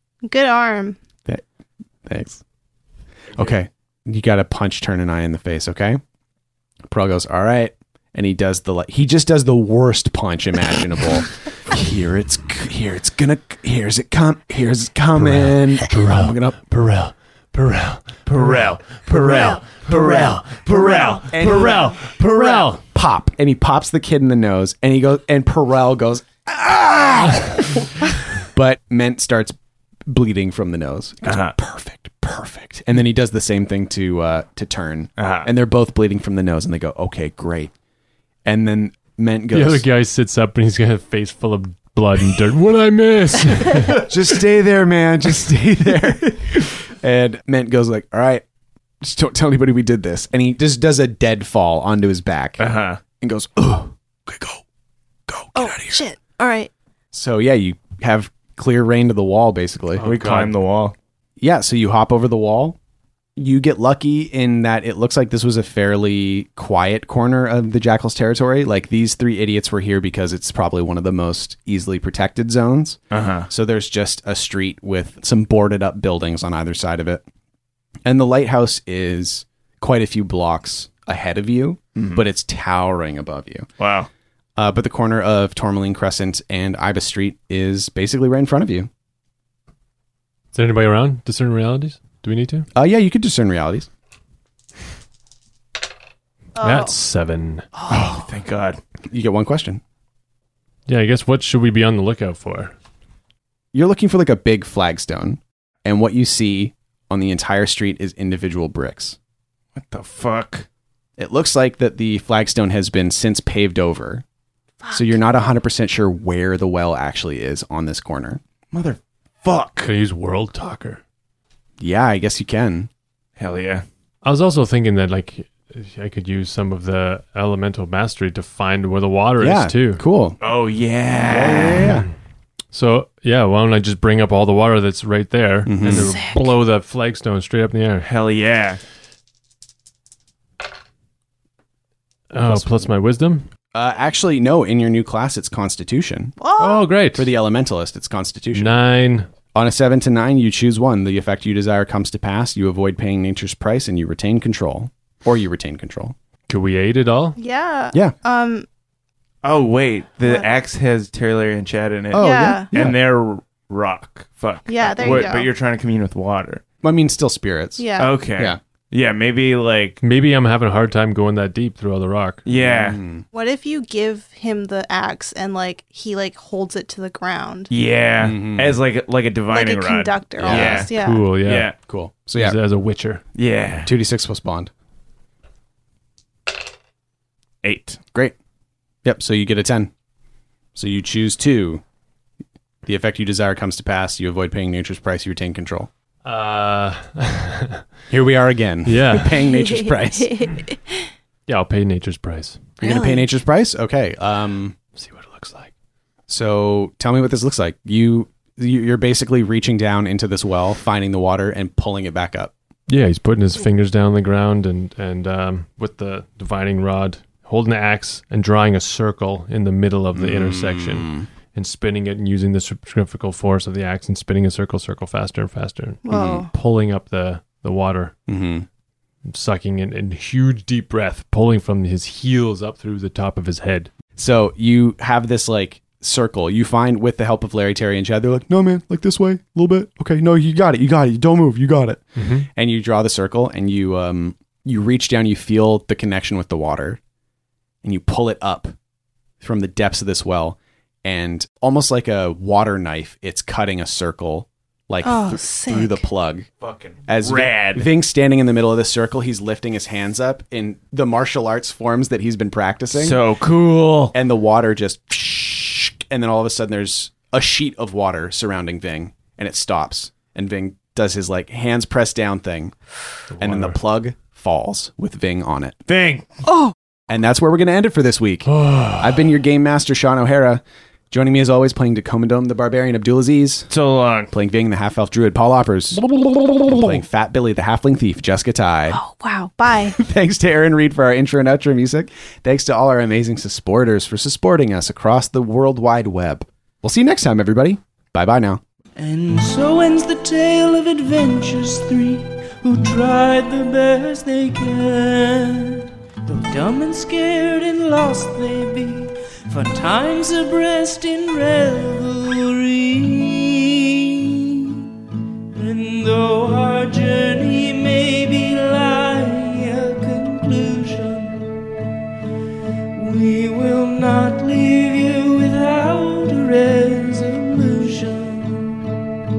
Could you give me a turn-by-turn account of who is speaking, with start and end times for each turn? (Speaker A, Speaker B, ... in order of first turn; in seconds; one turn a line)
Speaker A: 0.2-1.0
Speaker B: 2.0-2.4
Speaker B: 3.4-6.0
Speaker B: 6.9-16.6
Speaker C: 15.2-18.4
Speaker D: 18.3-22.7
Speaker C: 21.1-22.8
Speaker B: 21.3-29.6
Speaker B: 30.1-37.7
Speaker D: 31.2-31.5
Speaker D: 35.2-35.5
Speaker B: 38.5-39.9
Speaker C: 39.5-44.1
Speaker B: 44.0-48.4
Speaker B: 49.0-52.7
Speaker D: 52.6-53.0
Speaker B: 53.2-54.6
Speaker B: 55.3-56.0
Speaker A: 55.5-56.7
Speaker B: 57.1-60.0
Speaker C: 60.0-60.5
Speaker D: 60.0-61.0
Speaker B: 61.4-62.8
Speaker B: 63.4-77.2
Speaker D: 73.1-73.5
Speaker B: 78.0-83.7
Speaker D: 82.0-82.2
Speaker D: 83.8-84.1
Speaker B: 84.6-88.9
Speaker C: 90.5-92.7
Speaker B: 92.8-93.9
Speaker A: 96.6-97.0
Speaker C: 96.6-97.7
Speaker A: 97.8-98.1
Speaker D: 97.9-98.8
Speaker B: 99.1-99.8
Speaker C: 100.9-102.7
Speaker B: 103.7-109.2
Speaker D: 109.8-110.7
Speaker B: 111.2-114.2
Speaker A: 114.8-115.1
Speaker B: 114.9-118.4
Speaker D: 118.7-119.9
Speaker C: 119.8-121.0
Speaker B: 121.8-122.9
Speaker D: 123.4-123.8
Speaker C: 124.2-130.0
Speaker B: 129.4-130.4
Speaker D: 130.4-131.9
Speaker B: 131.2-132.1
Speaker C: 131.7-132.1
Speaker C: 132.7-138.1
Speaker B: 135.7-136.2
Speaker A: 135.9-136.5
Speaker D: 138.1-138.8
Speaker C: 142.3-143.5
Speaker B: 142.4-142.8
Speaker B: 143.7-146.4
Speaker A: 146.4-146.9
Speaker C: 146.6-147.3
Speaker B: 147.1-148.7
Speaker C: 148.5-149.3
Speaker B: 149.5-156.2
Speaker C: 156.5-157.4
Speaker A: 157.4-158.7
Speaker D: 159.4-166.6
Speaker B: 162.1-163.0
Speaker A: 162.2-162.7
Speaker A: 164.7-165.5
Speaker B: 166.8-168.6
Speaker A: 167.8-168.1
Speaker D: 168.0-170.0
Speaker C: 170.0-172.4
Speaker D: 172.5-173.0
Speaker B: 172.6-173.2
Speaker A: 173.3-177.7
Speaker D: 177.7-180.9
Speaker B: 178.2-178.8
Speaker A: 179.5-181.2
Speaker B: 180.4-180.8
Speaker C: 180.6-181.8
Speaker D: 181.4-181.8
Speaker B: 181.9-182.6
Speaker C: 182.3-183.2
Speaker D: 183.4-183.9
Speaker B: 183.8-184.7
Speaker D: 187.6-188.0
Speaker B: 189.0-189.9
Speaker B: 190.8-191.8
Speaker B: 192.9-195.9
Speaker C: 196.2-197.8
Speaker B: 198.1-200.5
Speaker C: 198.9-199.4
Speaker A: 199.5-201.1
Speaker C: 201.5-202.7
Speaker A: 202.8-203.3
Speaker B: 202.8-204.8
Speaker C: 204.9-205.7
Speaker B: 206.3-212.5
Speaker C: 212.9-228.2
Speaker B: 220.2-221.3
Speaker A: 226.1-226.5
Speaker B: 226.1-226.4
Speaker B: 228.3-228.7
Speaker C: 229.3-233.9
Speaker B: 234.2-247.0
Speaker C: 242.2-242.5
Speaker B: 247.8-248.8
Speaker B: 249.4-256.5
Speaker A: 255.0-256.0
Speaker D: 256.6-257.9
Speaker B: 257.1-263.2
Speaker D: 262.9-264.1
Speaker B: 264.1-272.7
Speaker C: 273.3-273.8
Speaker B: 273.4-275.8
Speaker D: 275.9-276.3
Speaker B: 277.1-283.7
Speaker C: 278.5-279.2
Speaker D: 283.7-284.3
Speaker B: 284.3-289.0
Speaker A: 288.9-290.0
Speaker B: 289.9-298.6
Speaker E: 299.0-314.9
Speaker E: 315.5-321.6
Speaker E: 322.9-328.9